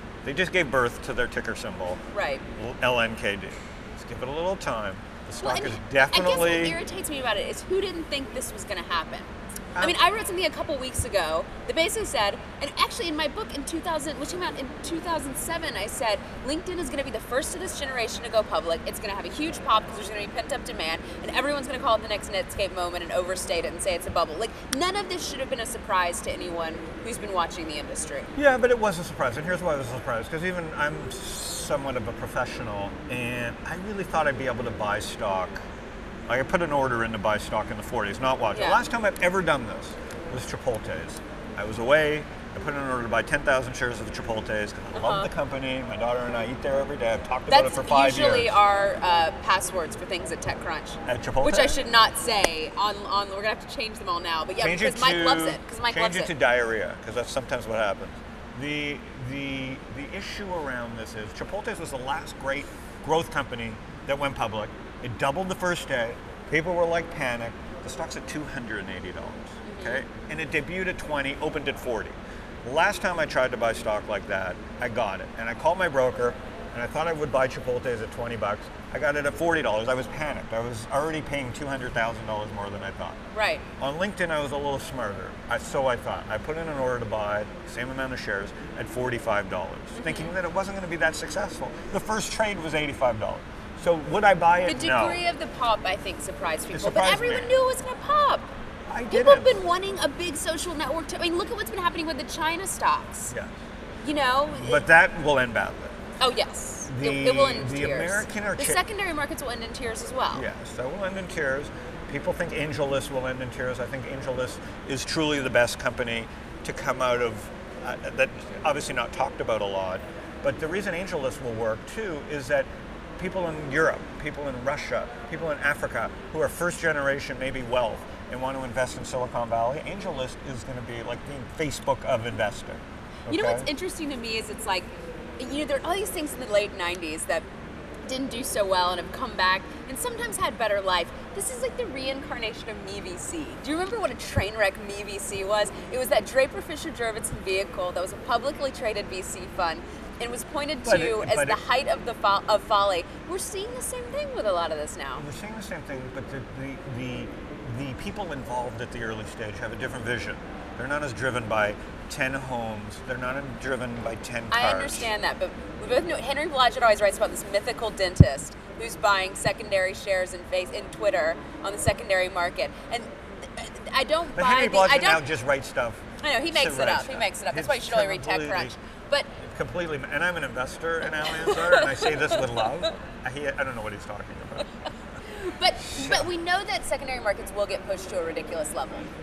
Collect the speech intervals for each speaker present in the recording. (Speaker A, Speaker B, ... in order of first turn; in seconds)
Speaker A: 0.2-2.0, 2.6-6.8, 28.4-35.6, 36.3-48.6, 51.1-51.8, 54.6-83.2, 83.8-95.2, 96.7-97.5, 98.9-99.6, 104.5-105.9, 106.9-108.8, 110.3-122.7, 123.2-133.7, 150.8-151.6, 155.2-165.1, 174.3-178.8, 179.4-184.7, 185.8-186.3
Speaker B: 2.1-2.4, 5.4-28.3, 38.5-38.8, 44.9-45.3, 47.5-56.3, 69.7-70.0, 83.3-83.6, 90.0-90.3, 94.7-98.5, 99.1-103.3, 104.0-104.8, 106.2-110.5, 133.3-137.4, 138.1-155.2, 164.5-175.3, 176.2-179.3, 181.2-182.9, 185.3-189.1